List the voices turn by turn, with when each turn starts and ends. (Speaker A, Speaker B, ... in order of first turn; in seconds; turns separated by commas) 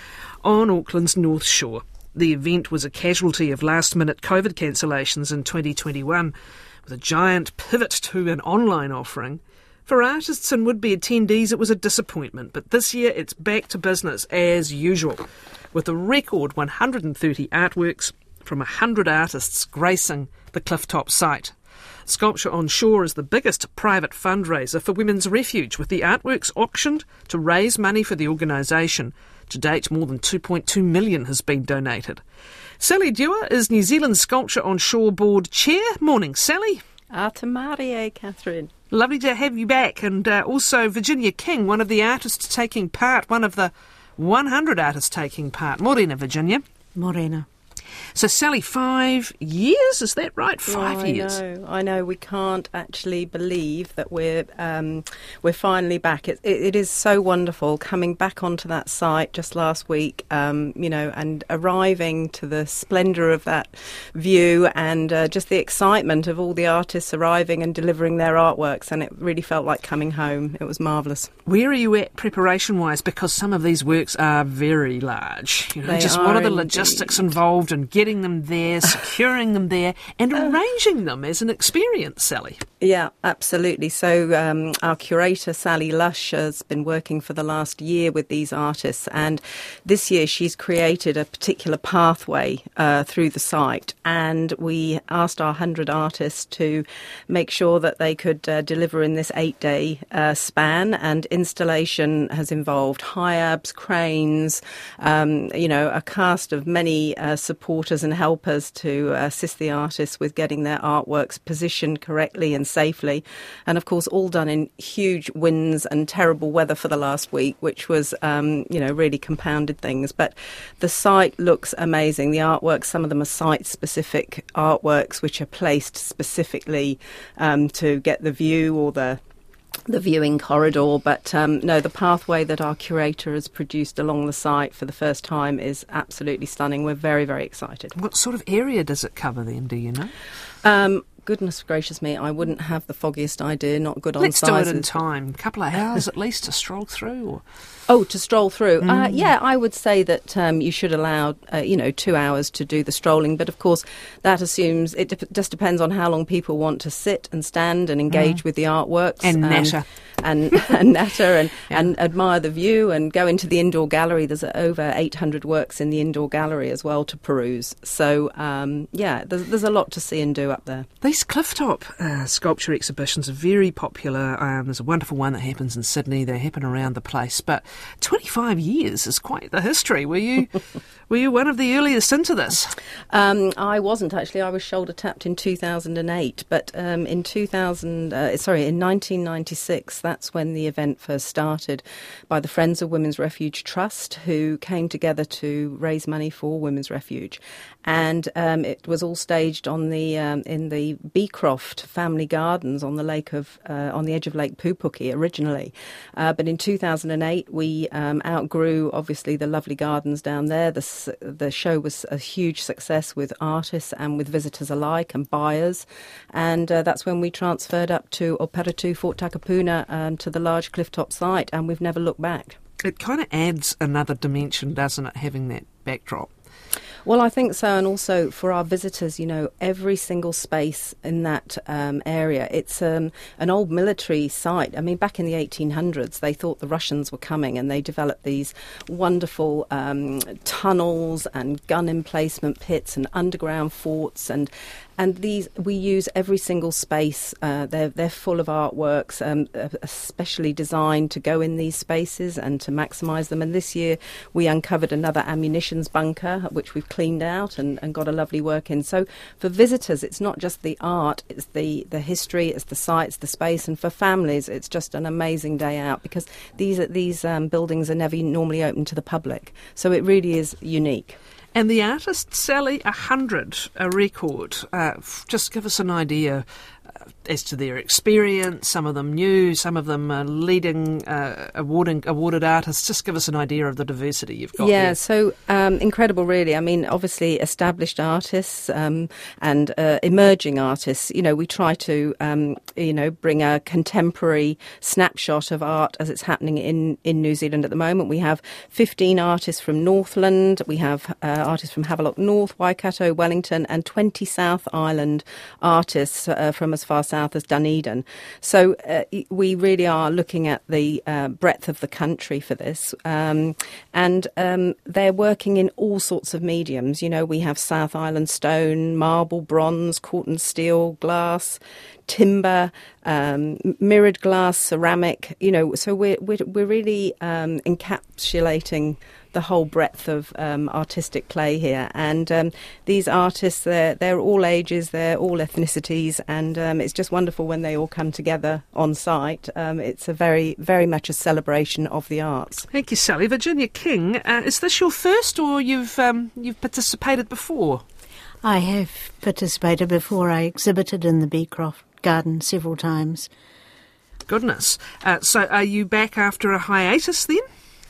Speaker A: 0.4-6.3, Speaker A: 6.8-21.5, Speaker A: 22.1-32.2, Speaker A: 32.8-36.8, Speaker B: 37.1-38.7, Speaker A: 38.9-46.6, Speaker C: 46.9-47.5, Speaker A: 48.1-51.4, Speaker B: 50.7-71.3, Speaker A: 71.5-82.6, Speaker B: 75.8-77.3, Speaker B: 82.8-129.2, Speaker B: 129.9-137.9, Speaker A: 137.9-140.1, Speaker B: 140.6-145.0, Speaker A: 144.2-147.4, Speaker B: 147.9-170.9, Speaker A: 159.2-159.8, Speaker A: 171.0-182.8, Speaker B: 183.1-222.6, Speaker A: 222.8-226.3, Speaker B: 227.0-271.2, Speaker A: 271.5-276.4, Speaker A: 277.2-285.0, Speaker B: 284.6-342.7, Speaker A: 342.7-347.8, Speaker C: 348.4-353.3, Speaker A: 354.3-357.4